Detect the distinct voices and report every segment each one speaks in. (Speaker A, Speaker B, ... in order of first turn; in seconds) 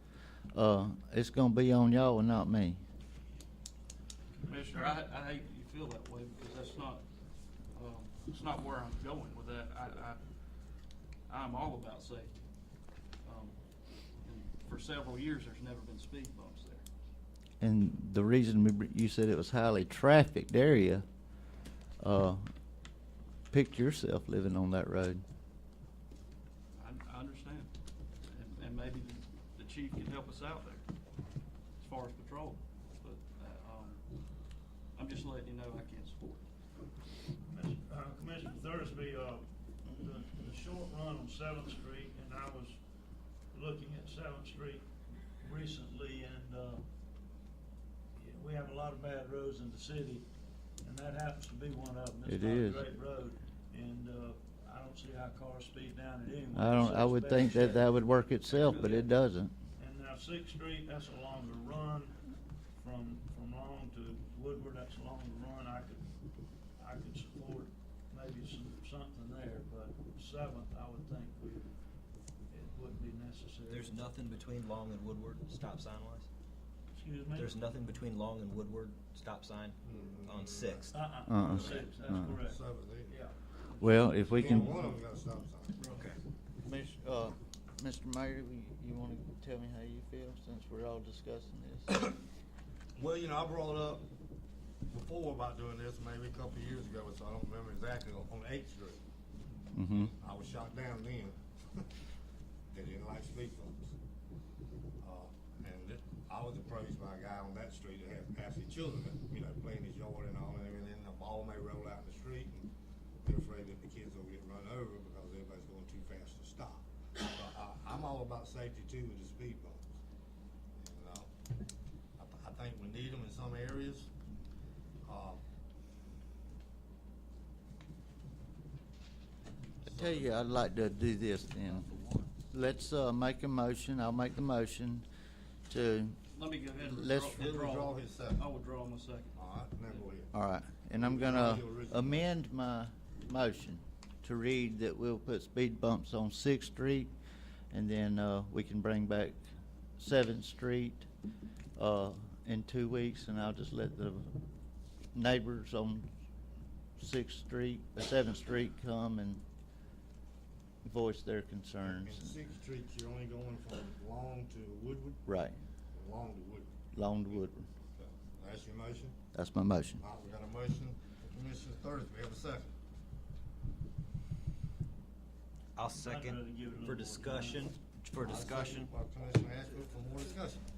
Speaker A: 0.5-2.8, 17.6-21.1, 22.0-22.5, 23.5-25.2, 52.3-52.8, 56.5-59.5, 81.3-82.3, 83.8-84.8, 86.6-92.0, 99.7-100.1, 129.9-135.1, 135.7-136.2, 136.8-137.5, 140.3-147.1, 147.7-149.4, 150.0-151.1, 151.8-154.4, 155.2-156.1, 157.0-159.4, 160.8-162.3, 165.3-165.6, 166.9-167.7, 169.3-170.0
Speaker B: 4.4-5.1, 37.4-42.8, 43.5-44.9, 45.4-46.8, 48.2-50.3, 50.8-57.9, 58.5-59.1, 59.8-62.2, 62.8-66.1, 66.8-71.7, 72.5-74.1, 76.9-77.6, 80.9-83.4, 175.9-177.7
Speaker C: 4.5-7.0, 7.7-10.2, 11.3-12.3, 13.2-13.6, 14.2-16.9, 26.8-27.7, 28.3-30.8, 31.8-34.0, 34.9-36.4, 83.8-84.0, 85.8-86.1, 136.3-139.4
Speaker D: 73.7-76.3, 77.4-81.0, 85.9-86.2, 175.8-178.9
Speaker E: 79.8-80.9, 81.5-81.8, 82.3-83.1, 84.3-85.8, 93.0-94.1, 94.9-99.0, 99.9-101.9, 102.7-103.9, 105.0-112.7, 113.2-119.9, 120.8-121.3, 122.2-124.1, 125.0-125.4, 129.8-130.3, 137.4-138.4, 139.3-140.3, 140.9-142.3, 161.8-165.2, 165.9-166.7, 168.0-169.2, 170.0-172.7, 178.2-180.7